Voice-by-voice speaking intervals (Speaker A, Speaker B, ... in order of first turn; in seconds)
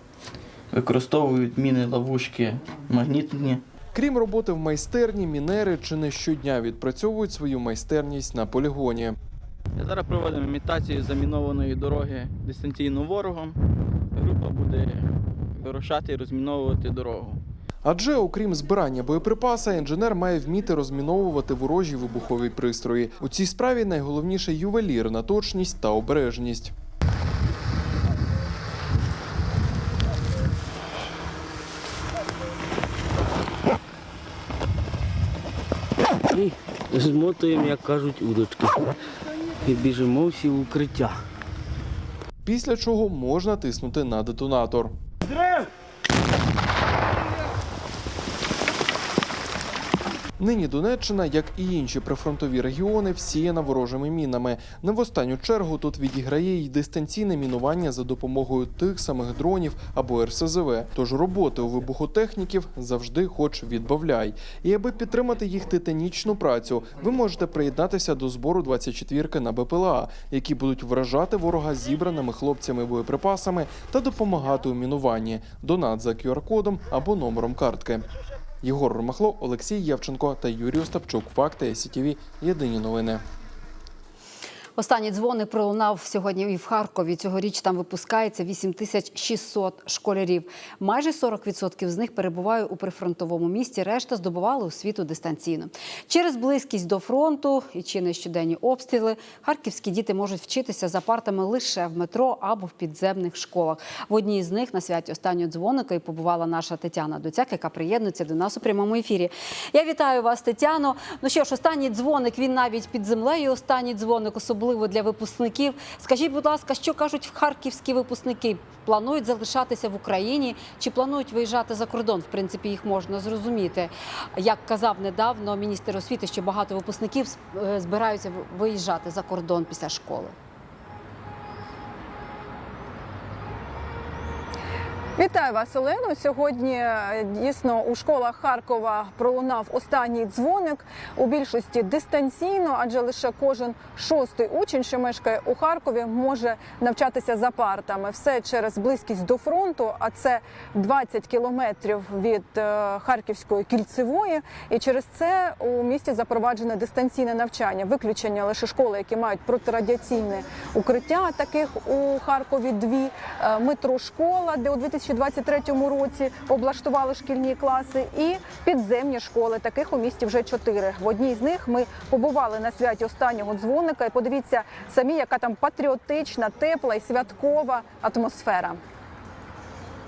Speaker A: 0.7-3.6, 9.8-13.6, 14.2-17.4
Speaker B: 3.9-9.2, 17.8-26.7, 42.4-44.9, 50.4-78.0, 78.6-83.2
Speaker C: 36.3-38.8, 39.6-41.1
Speaker D: 84.8-130.3
Speaker E: 135.2-178.8